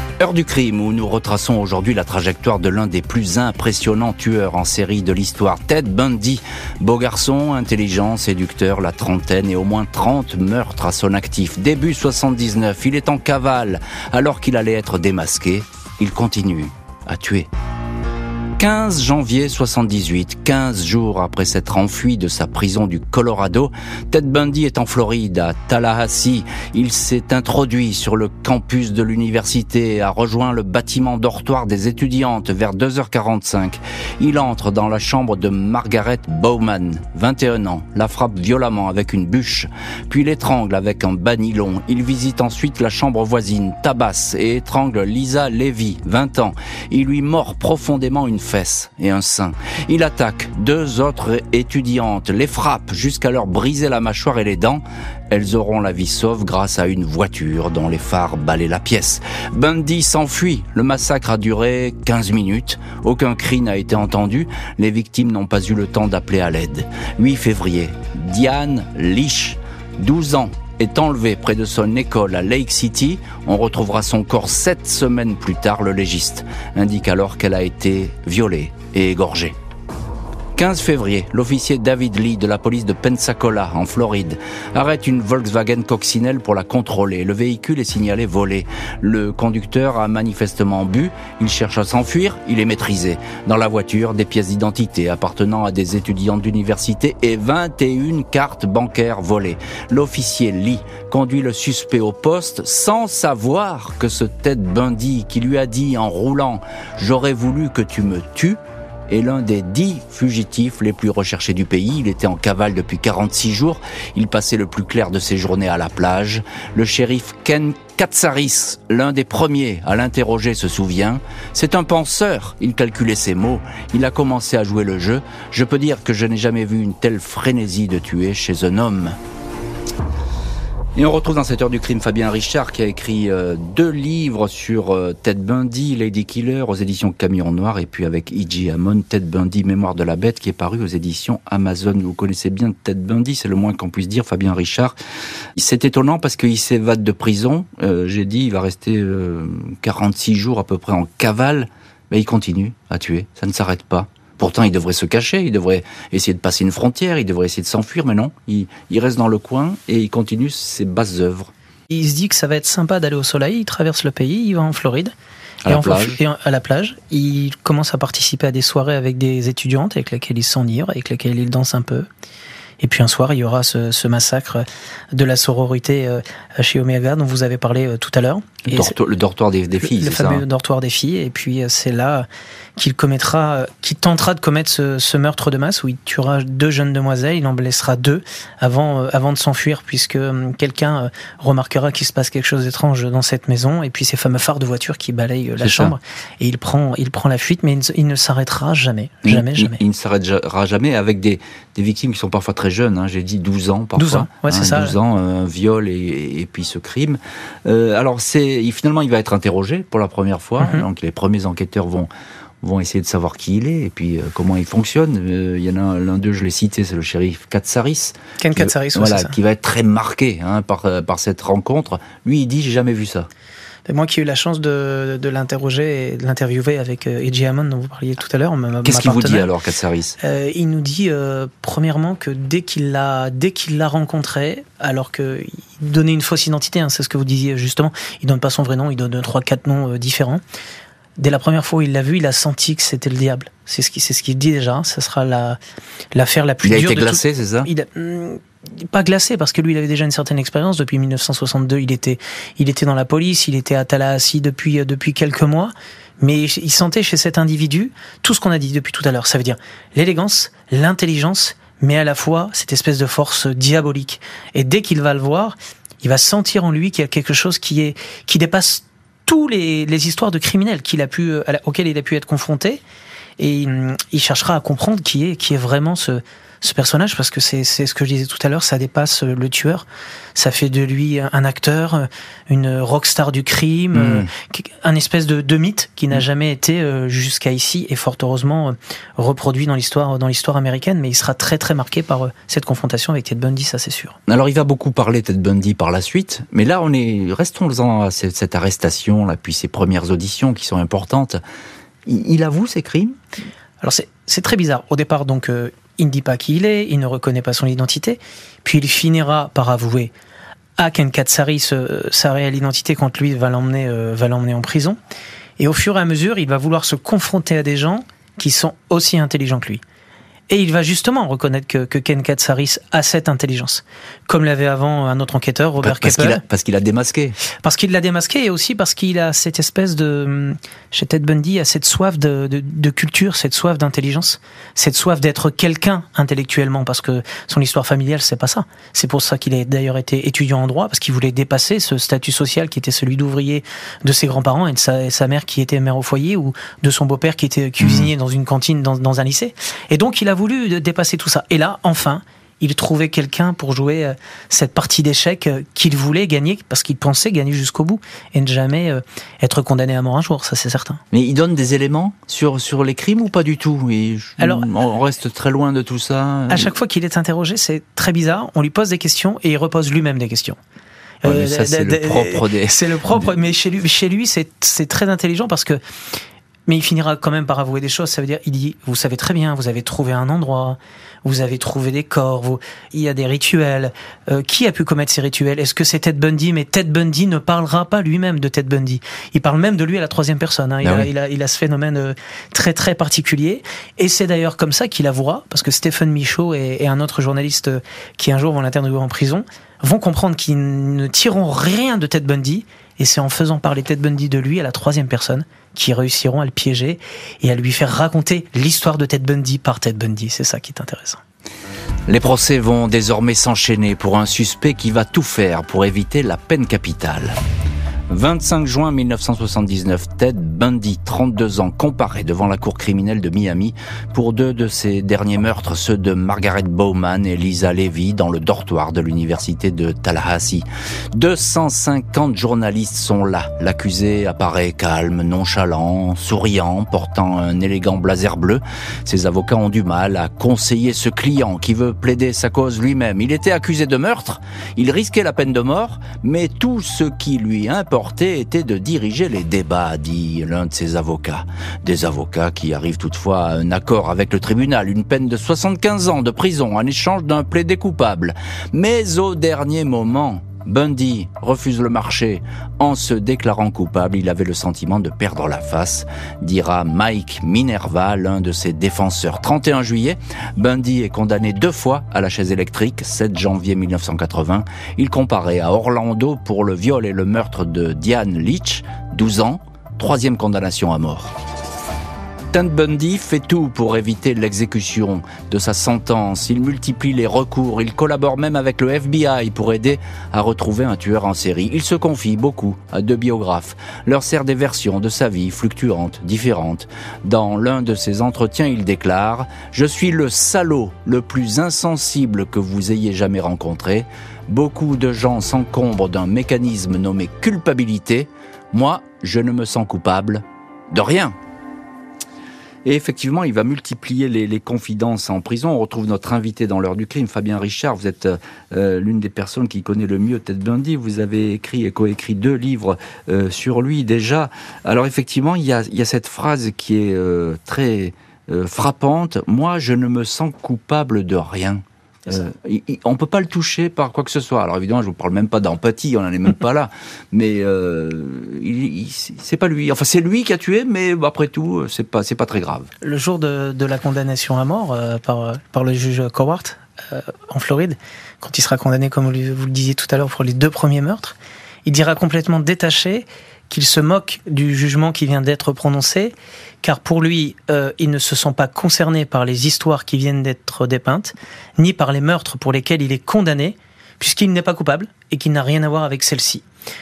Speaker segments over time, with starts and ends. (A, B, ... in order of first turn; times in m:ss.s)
0:00.2-0:17.5 A
0:18.6-1:19.6 A
1:20.6-2:09.2 A
2:11.0-2:25.0 A
2:25.6-2:41.5 A
2:41.9-2:45.1 B
2:45.6-2:46.2 A
2:45.7-2:52.1 B
2:52.8-2:59.0 B
2:58.7-3:00.4 A
2:59.8-3:19.8 B
3:15.6-3:16.0 A
3:19.2-3:32.1 A
3:24.0-3:25.0 B
3:30.6-3:30.9 B
3:32.6-3:43.3 A
3:38.4-3:39.4 B
3:43.9-3:49.5 B
3:48.8-3:50.2 A
3:50.2-4:00.4 B
4:01.2-4:05.6 B
4:06.1-4:32.8 B
4:06.6-4:07.7 A
4:33.4-4:54.2 B
4:43.9-4:44.3 A
4:54.3-5:01.4 A
5:02.1-5:03.2 A
5:03.8-5:10.1 B
5:10.8-5:15.0 B
5:15.6-5:19.8 B
5:20.5-5:26.4 B
5:25.8-5:27.4 A
5:27.6-6:01.0 B
5:47.8-5:48.1 A
6:01.1-6:06.7 A
6:04.4-6:04.7 B
6:06.5-6:10.6 B
6:11.2-6:13.3 A
6:11.2-6:15.8 B
6:16.7-6:51.2 B
6:30.8-6:31.1 A
6:52.1-6:57.4 A
6:58.1-8:01.4 A
8:02.5-8:31.4 A
8:32.8-9:02.9 A
9:03.0-9:26.6 B